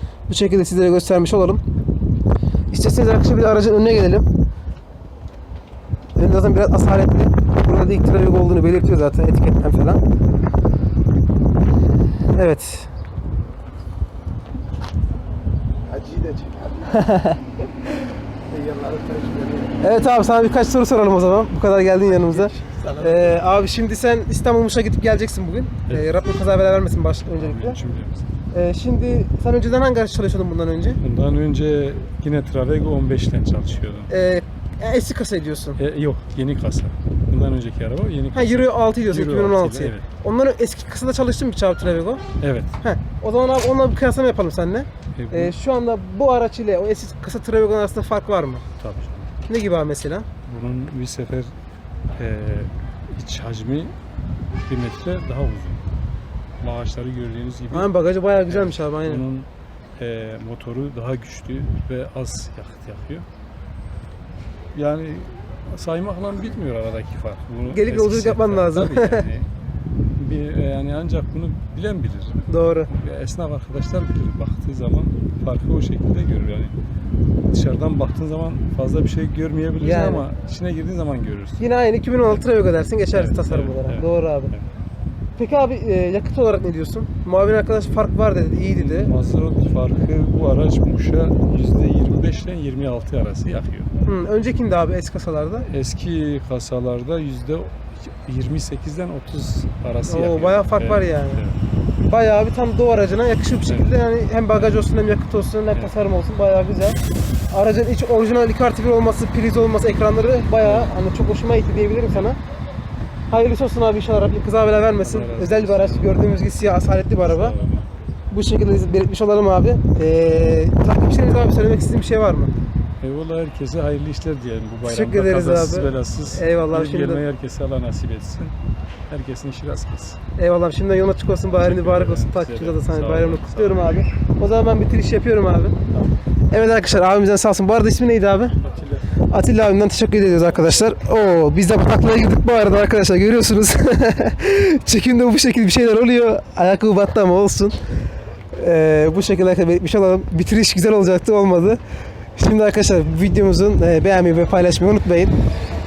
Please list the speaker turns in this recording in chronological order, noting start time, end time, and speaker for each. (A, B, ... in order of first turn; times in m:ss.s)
0:00.3-0:01.6 A
0:02.7-0:04.3 A
0:06.2-0:10.0 A
0:12.3-0:12.9 A
0:15.8-0:16.9 B
0:16.9-0:17.4 A
0:18.5-0:19.8 B
0:19.8-0:27.8 A
0:22.1-0:23.4 B
0:25.9-0:26.2 C
0:27.3-0:28.3 C
0:28.5-0:31.0 A
0:31.0-0:34.1 C
0:34.1-0:35.8 A
0:35.8-0:40.1 C
0:38.3-0:42.2 A
0:42.4-0:42.7 C
0:42.8-0:48.6 A
0:45.2-0:45.5 C
0:48.8-0:49.3 C
0:49.5-0:50.3 A
0:50.5-0:51.5 C
0:52.1-0:54.0 C
0:54.7-0:55.8 C
0:56.6-0:57.9 C
0:57.7-0:59.2 A
0:58.5-1:03.3 C
1:04.7-1:09.5 C
1:07.7-1:09.3 A
1:10.2-1:16.8 C
1:12.5-1:12.9 A
1:17.5-1:21.6 C
1:19.8-1:20.3 A
1:21.6-1:24.5 A
1:23.1-1:24.7 C
1:25.4-1:29.1 A
1:28.6-1:33.9 C
1:34.0-1:35.7 A
1:35.7-1:41.6 C
1:40.1-1:41.4 A
1:42.1-1:52.4 A
1:43.6-1:44.0 C
1:50.6-1:51.0 C
1:53.3-1:57.6 A
1:55.0-1:56.6 C
1:57.2-1:57.9 C
1:58.3-2:02.6 A
2:03.0-2:08.6 C
2:04.8-2:07.3 A
2:09.1-2:10.2 C
2:10.4-2:15.8 A
2:11.6-2:14.0 C
2:16.5-2:18.6 A
2:18.6-2:19.0 C
2:19.3-2:27.8 A
2:28.5-2:31.8 A
2:32.4-2:35.4 A